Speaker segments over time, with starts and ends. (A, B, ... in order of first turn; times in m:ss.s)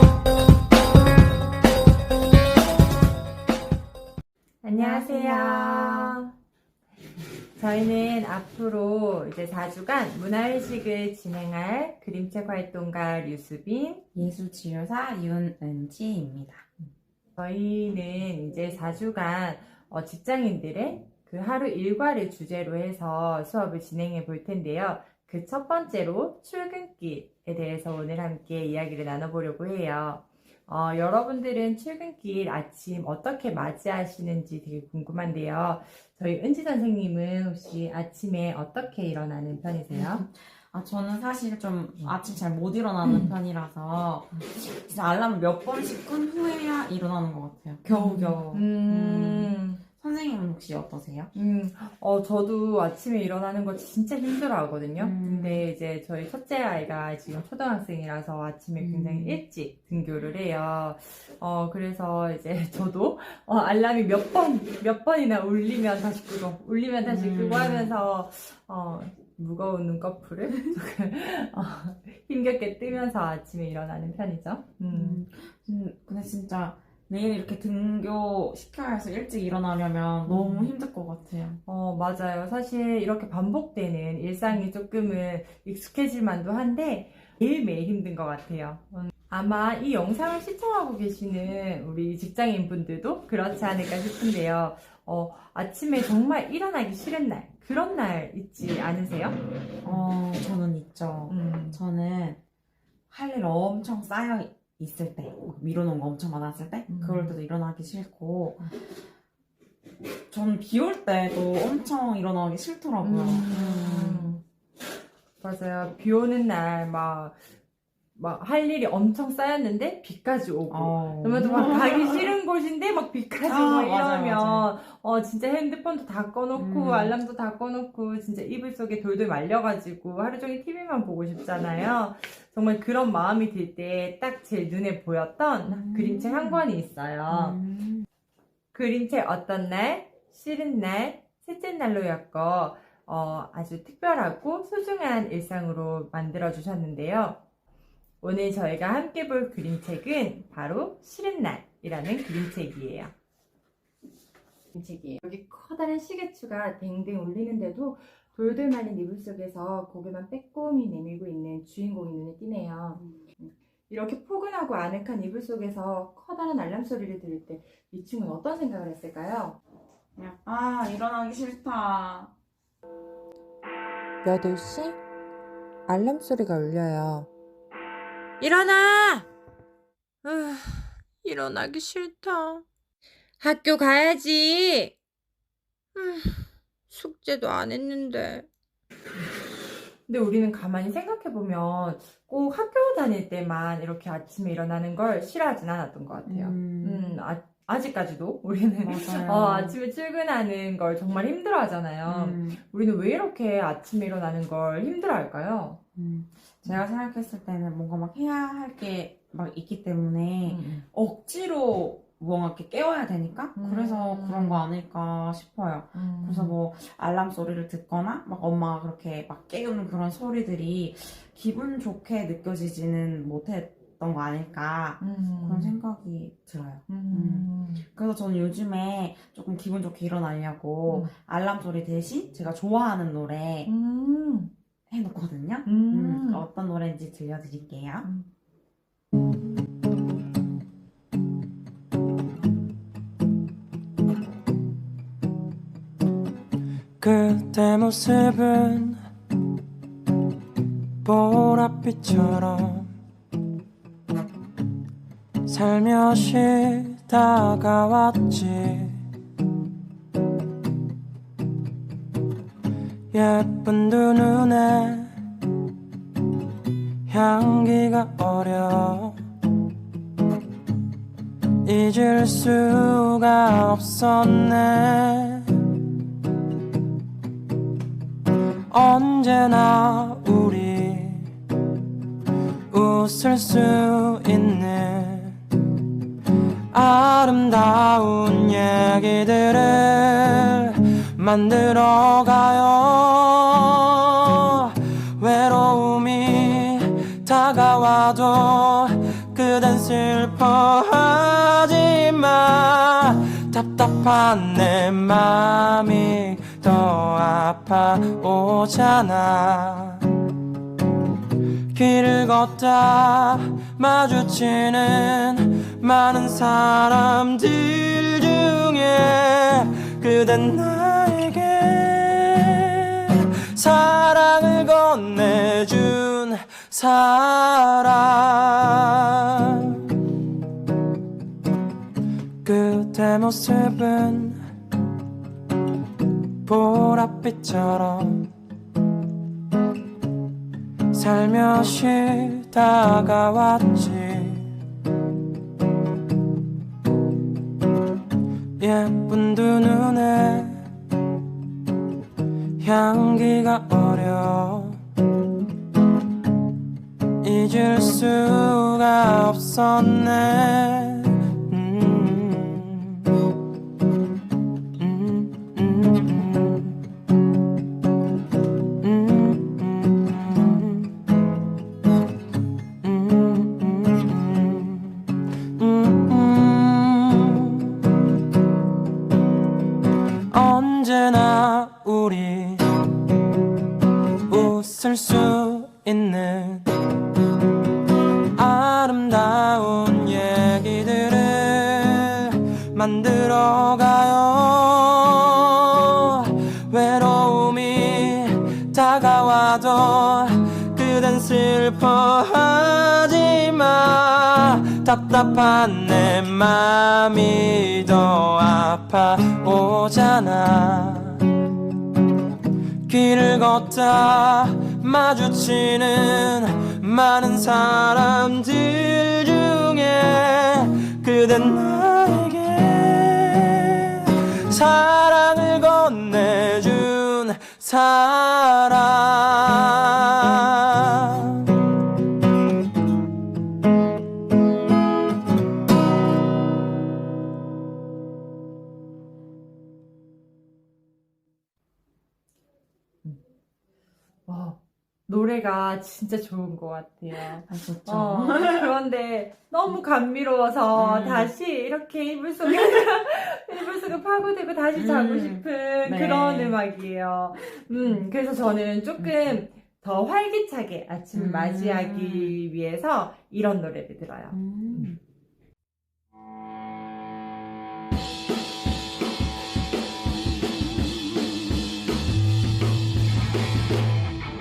0:04.6-0:06.3 A
0:04.7-0:06.2 B
0:07.5-0:14.1 A
0:14.1-0:16.6 B
0:17.4-0:40.2 A
0:39.9-0:51.3 B
0:43.0-0:43.3 A
0:47.9-0:49.8 A
0:51.3-1:15.2 A
0:55.0-0:55.6 B
0:58.8-0:59.4 B
1:07.0-1:08.0 B
1:14.9-1:21.6 B
1:20.2-1:20.7 A
1:21.6-1:40.0 A
1:39.8-1:42.4 B
1:41.3-1:41.8 A
1:43.1-1:48.8 B
1:46.9-1:47.4 A
1:50.3-1:54.3 B
1:53.0-1:54.4 A
1:55.4-1:57.4 A
1:58.1-2:17.6 A
2:00.7-2:02.3 B
2:03.4-2:04.7 B
2:06.5-2:07.2 B
2:15.6-2:16.6 B
2:17.3-2:18.0 B
2:18.7-2:27.4 A
2:28.2-2:33.1 A
2:34.7-2:49.6 A
2:50.2-2:52.3 B
2:54.2-2:55.0 A
2:55.9-2:57.3 A
2:58.4-2:59.3 A
3:00.2-3:02.6 A
3:03.4-3:05.0 A
3:05.9-3:08.5 A
3:10.0-3:25.8 A
3:16.2-3:17.2 B
3:18.8-3:19.8 B
3:22.0-3:22.6 B
3:26.0-3:53.7 B
3:30.4-3:30.8 A
3:33.6-3:34.7 A
3:35.9-3:36.6 A
3:45.0-3:45.8 A
3:46.9-3:47.8 A
3:50.8-3:51.1 A
3:53.6-3:54.5 A
3:54.9-3:58.1 B
3:55.6-3:56.4 A
3:58.0-3:58.3 A
4:07.0-4:09.0 C
4:11.0-4:12.9 C
4:15.5-4:19.0 C
4:23.1-4:25.1 C
4:27.1-4:29.2 C
4:31.6-4:35.5 C
4:38.7-4:41.3 C
4:42.7-4:45.4 C
4:46.7-5:10.0 C
5:11.7-5:29.8 C
5:32.4-5:34.4 C
5:36.4-5:38.3 C
5:40.9-5:44.5 C
5:48.6-5:50.6 C
5:52.6-5:54.8 C
5:57.2-6:03.0 C
6:04.8-6:06.8 C
6:08.8-6:11.0 C
6:12.8-6:17.8 C
6:20.3-6:22.6 C
6:24.3-6:26.7 C
6:28.4-6:51.2 C
6:52.9-7:11.4 C
7:24.2-7:44.9 A
7:27.3-7:28.7 B
7:30.7-7:31.3 B
7:34.7-7:36.6 B
7:39.0-7:39.4 B
7:41.1-7:42.3 B
7:44.3-7:45.0 B